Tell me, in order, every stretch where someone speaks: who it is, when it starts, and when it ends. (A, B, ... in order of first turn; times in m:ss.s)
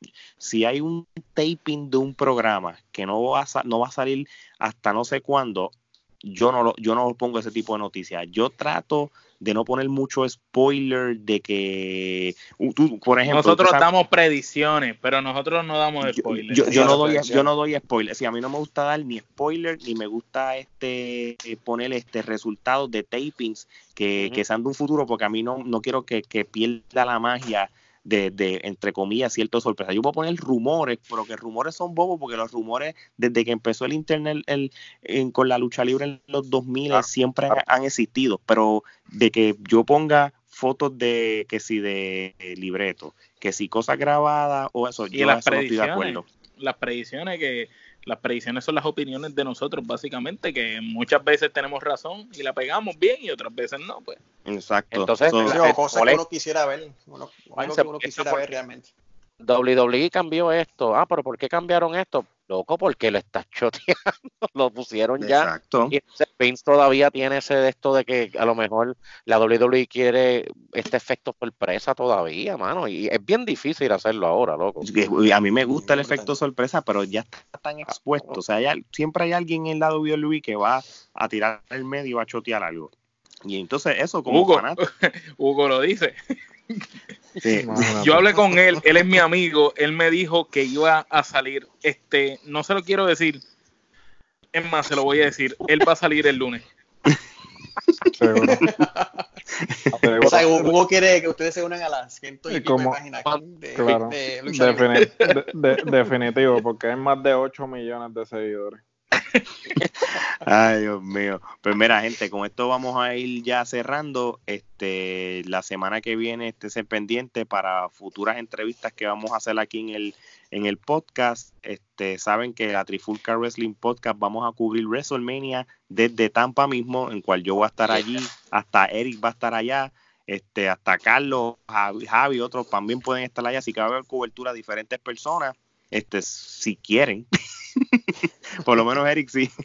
0:00.4-0:13.9 A
0:13.3-0:17.0 B
0:16.4-0:46.2 A
0:16.6-0:17.4 C
0:36.9-0:37.6 D
0:45.1-0:54.2 B
0:54.4-0:55.6 A
0:54.9-0:56.2 D
0:55.4-0:58.9 C
0:57.6-0:58.4 D
0:59.4-1:14.9 D
1:05.2-1:05.9 A
1:14.8-1:22.9 A
1:15.7-1:16.3 C
1:23.4-1:24.8 A
1:24.3-1:26.2 B
1:27.4-1:28.0 A
1:27.5-1:28.3 E
1:28.0-1:33.4 B
1:34.5-1:36.6 B
1:38.1-1:38.6 E
1:38.4-1:39.2 C
1:39.6-1:39.9 A
1:40.0-1:40.7 E
1:40.2-1:45.1 C
1:42.5-1:43.0 E
1:43.8-1:48.8 E
1:49.8-2:19.5 A